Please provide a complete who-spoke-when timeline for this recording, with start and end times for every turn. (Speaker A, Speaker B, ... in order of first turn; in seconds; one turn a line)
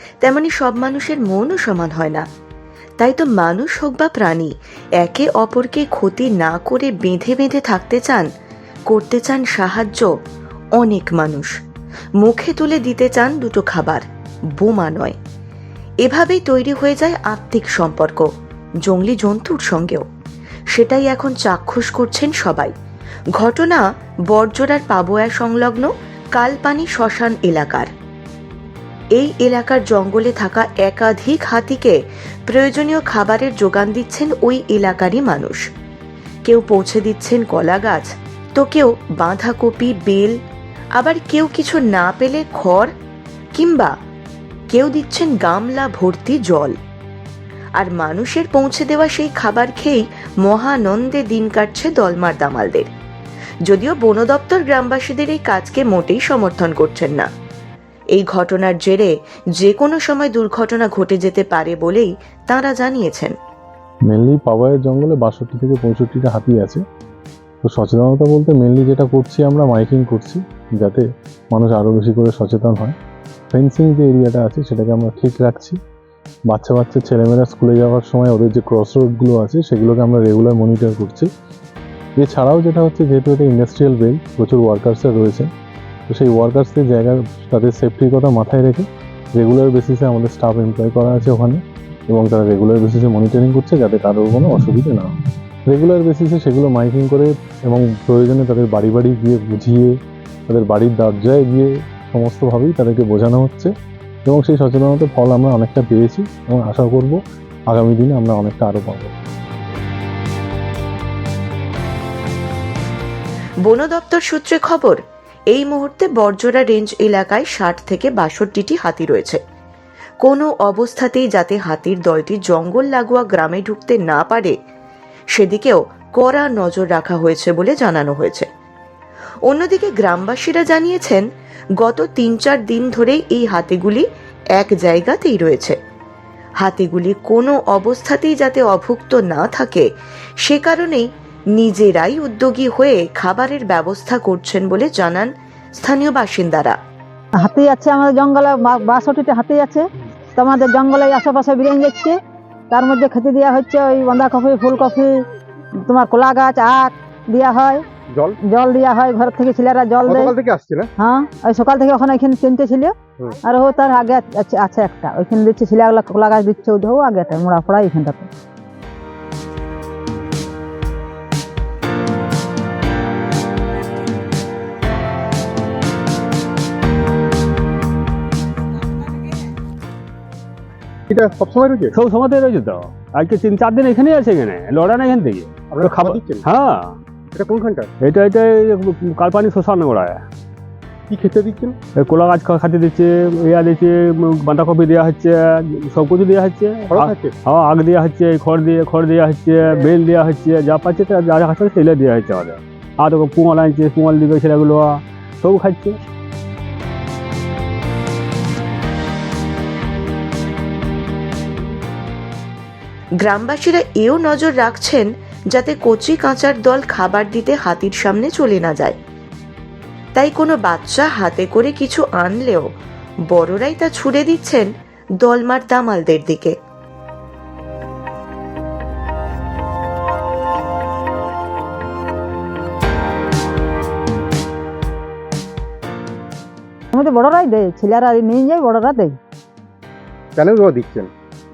Speaker A: 0.2-2.2
Speaker A: 3.0-8.3
Speaker A: 8.9-10.1
Speaker A: 10.8-11.6
Speaker A: 12.2-14.0
Speaker A: 14.6-15.2
Speaker A: 16.0-18.3
Speaker A: 18.8-20.1
Speaker A: 20.7-22.7
Speaker A: 23.4-27.9
Speaker A: 29.2-35.6
Speaker A: 36.5-40.4
Speaker A: 41.0-42.9
Speaker A: 43.5-43.9
Speaker A: 44.7-46.8
Speaker A: 47.8-52.9
Speaker A: 53.7-57.3
Speaker A: 58.1-63.3
Speaker B: 64.1-66.8
Speaker B: 67.6-72.9
Speaker B: 73.5-75.8
Speaker B: 76.5-81.3
Speaker B: 82.2-85.5
Speaker B: 86.1-88.8
Speaker B: 89.4-91.6
Speaker B: 92.1-95.1
Speaker B: 95.7-99.9
Speaker B: 100.5-103.7
Speaker B: 104.3-107.2
Speaker B: 107.7-109.1
Speaker A: 113.6-119.4
Speaker A: 120.2-124.5
Speaker A: 125.3-128.5
Speaker A: 129.5-131.2
Speaker A: 131.8-135.8
Speaker A: 136.6-139.9
Speaker A: 140.4-146.8
Speaker C: 147.4-152.2
Speaker C: 152.7-155.1
Speaker C: 155.9-157.8
Speaker D: 158.1-158.4
Speaker C: 158.4-160.3
Speaker D: 160.1-160.9
Speaker C: 161.0-168.3
Speaker D: 181.1-181.9
Speaker E: 181.9-187.0
Speaker D: 185.7-186.4
Speaker D: 187.3-187.9
Speaker E: 188.0-190.2
Speaker D: 191.1-191.8
Speaker E: 192.0-206.0
Speaker D: 196.9-197.3
Speaker A: 213.2-219.0
Speaker A: 220.1-222.7
Speaker A: 223.3-224.7
Speaker A: 225.2-226.5
Speaker C: 236.9-239.2
Speaker D: 240.3-241.1